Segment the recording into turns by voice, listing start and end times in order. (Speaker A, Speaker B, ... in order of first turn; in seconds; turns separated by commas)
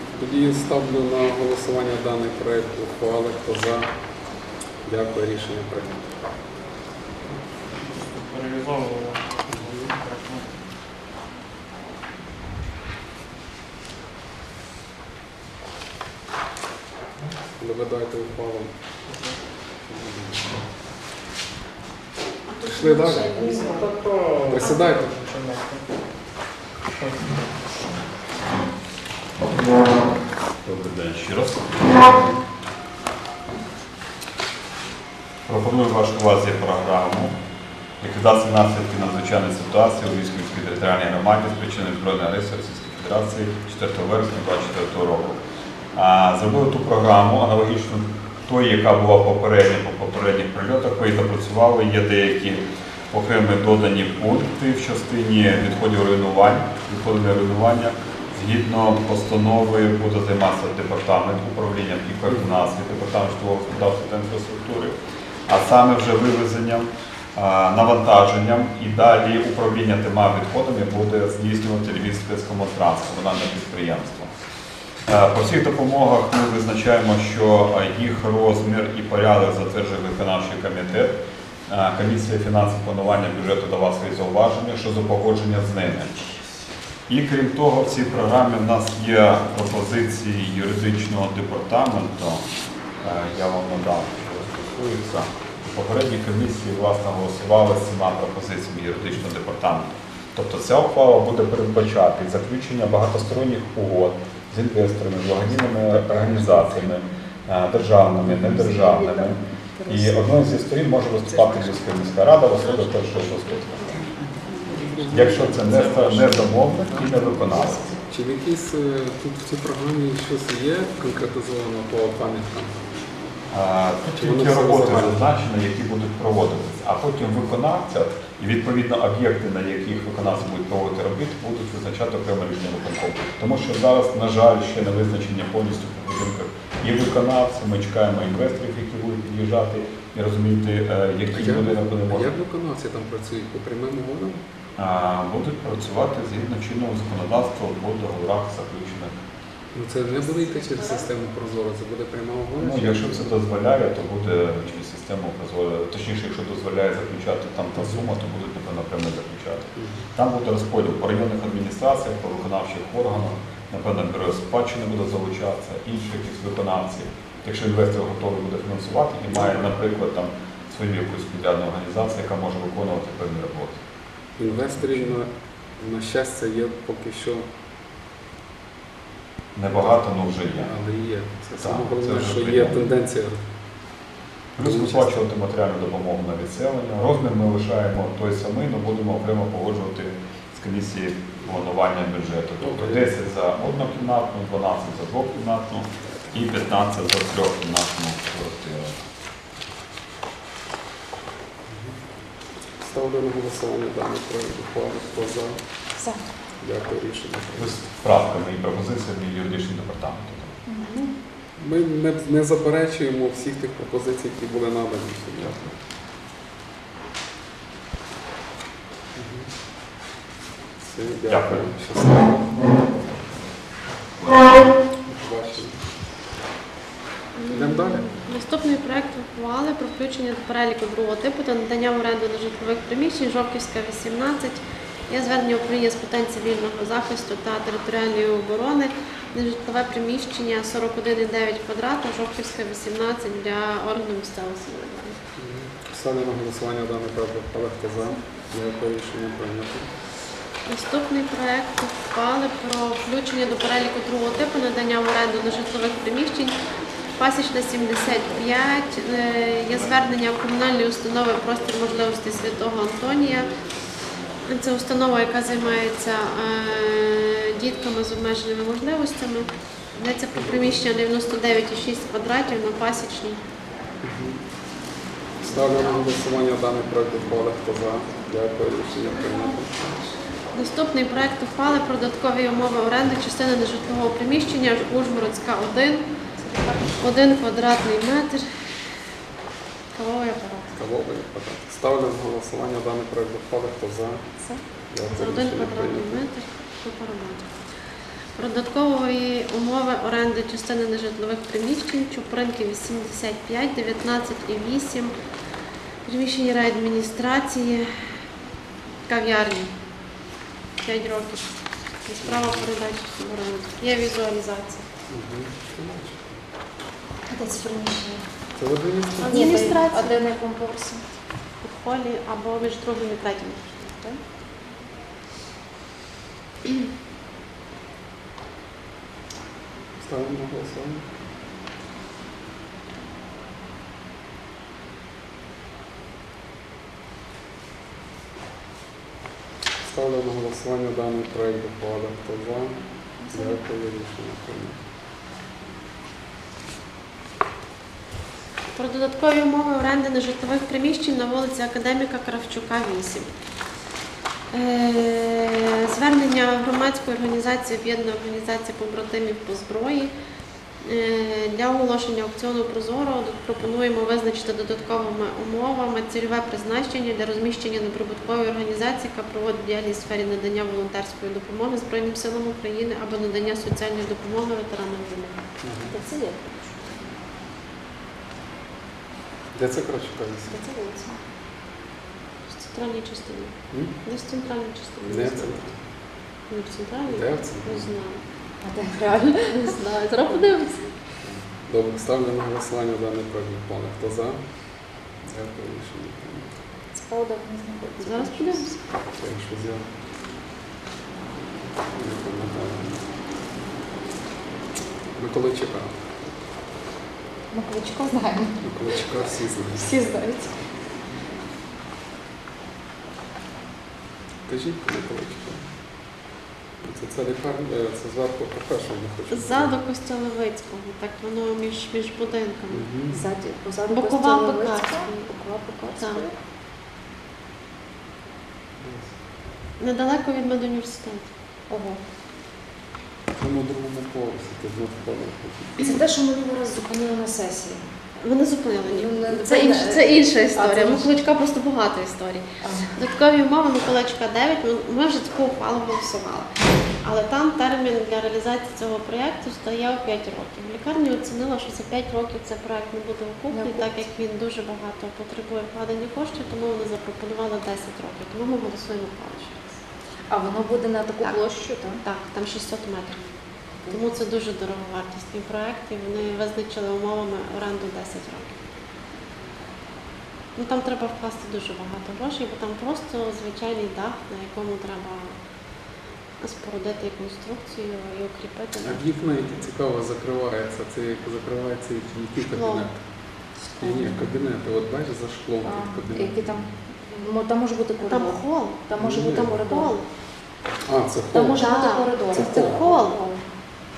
Speaker A: 0.1-3.9, Speaker A: 4.8-6.0, Speaker B: 7.5-10.6, Speaker A: 9.5-9.9, Speaker A: 17.6-18.7, Speaker B: 19.1-19.4, Speaker A: 19.9-20.5, Speaker C: 22.5-23.9, Speaker A: 22.6-23.5, Speaker B: 23.4-26.0, Speaker A: 24.5-25.2, Speaker B: 26.9-28.1, Speaker D: 30.6-32.2, Speaker D: 35.5-37.4, Speaker D: 38.0-45.4, Speaker D: 45.9-65.0, Speaker A: 62.3-62.6, Speaker D: 65.5-74.3, Speaker D: 75.1-81.2, Speaker D: 81.7-86.2, Speaker D: 87.1-92.5, Speaker D: 93.0-114.0, Speaker C: 105.9-106.6, Speaker C: 108.3-112.0, Speaker C: 112.6-114.3, Speaker A: 114.8-116.4, Speaker D: 115.1-117.9, Speaker C: 115.9-116.2, Speaker A: 118.1-122.9, Speaker D: 123.5-142.3, Speaker A: 124.2-125.2, Speaker A: 141.3-144.4, Speaker D: 144.8-149.2, Speaker A: 149.7-153.3, Speaker C: 150.2-151.1, Speaker D: 152.6-173.8, Speaker A: 159.8-160.1, Speaker A: 169.3-169.7, Speaker A: 174.4-177.5, Speaker D: 174.5-175.1, Speaker D: 179.6-180.7, Speaker A: 180.6-183.4, Speaker D: 181.6-182.8, Speaker D: 184.6-199.0, Speaker A: 184.6-185.2, Speaker A: 192.6-193.1, Speaker A: 201.7-202.0, Speaker A: 202.8-205.6, Speaker C: 206.0-206.3, Speaker A: 206.6-207.8, Speaker D: 207.6-210.5, Speaker C: 210.7-211.1, Speaker A: 211.6-215.7, Speaker A: 219.2-219.5, Speaker A: 220.8-222.5, Speaker D: 221.3-221.7, Speaker A: 225.1-225.8, Speaker E: 227.3-245.2, Speaker A: 227.5-228.1, Speaker A: 245.4-249.9, Speaker E: 250.7-256.6, Speaker E: 257.2-263.5, Speaker E: 264.5-273.4, Speaker A: 270.4-270.8, Speaker A: 274.0-274.4, Speaker A: 275.4-280.1, Speaker E: 280.5-286.1, Speaker C: 286.4-287.0, Speaker E: 287.0-288.5, Speaker E: 289.9-290.8, Speaker A: 290.7-294.2, Speaker A: 294.9-296.2, Speaker E: 295.2-297.5, Speaker E: 298.4-305.1, Speaker E: 306.1-307.9, Speaker E: 309.1-309.7, Speaker E: 310.8-311.5, Speaker E: 312.1-314.9, Speaker A: 312.2-312.6, Speaker A: 315.1-316.4, Speaker C: 317.3-318.3, Speaker A: 318.6-319.7, Speaker E: 319.2-320.2, Speaker C: 319.3-321.0, Speaker E: 321.6-324.2, Speaker A: 330.0-331.1, Speaker A: 339.8-342.8, Speaker C: 343.2-343.6, Speaker A: 343.3-344.8, Speaker E: 348.8-353.3, Speaker E: 354.5-360.1, Speaker E: 360.8-375.4, Speaker A: 375.6-375.9, Speaker C: 375.9-376.9, Speaker A: 379.6-380.6, Speaker C: 380.5-381.2, Speaker E: 382.5-385.7, Speaker A: 385.1-385.8, Speaker E: 386.5-388.2, Speaker A: 387.1-387.9, Speaker C: 388.6-389.8, Speaker E: 389.5-390.9, Speaker A: 391.2-394.4, Speaker A: 395.3-396.5, Speaker C: 396.9-398.7, Speaker E: 398.0-398.8, Speaker A: 399.1-399.9, Speaker A: 401.9-403.0, Speaker A: 405.2-406.0, Speaker C: 407.5-408.7, Speaker A: 408.6-409.9, Speaker C: 409.8-410.6, Speaker A: 414.5-415.7, Speaker A: 416.8-419.8, Speaker E: 419.3-422.9, Speaker A: 422.7-423.2, Speaker C: 423.1-426.4, Speaker E: 423.9-425.3, Speaker E: 425.9-426.2, Speaker A: 428.8-429.1, Speaker E: 429.8-431.3, Speaker C: 431.7-432.0, Speaker A: 433.4-435.8, Speaker C: 435.8-437.8, Speaker E: 438.2-446.5, Speaker C: 438.9-441.1, Speaker C: 442.6-443.0, Speaker E: 447.0-459.8, Speaker C: 453.5-453.9, Speaker C: 460.3-462.0, Speaker E: 462.0-463.2, Speaker E: 463.9-468.6, Speaker E: 470.6-475.4, Speaker E: 476.4-479.0, Speaker A: 478.8-483.0, Speaker E: 482.4-482.9, Speaker C: 483.8-484.2, Speaker A: 483.8-486.6, Speaker C: 485.6-489.9, Speaker E: 488.0-490.1, Speaker A: 488.9-489.6, Speaker A: 490.9-491.6, Speaker C: 491.3-493.4, Speaker E: 491.6-493.2, Speaker A: 492.3-492.8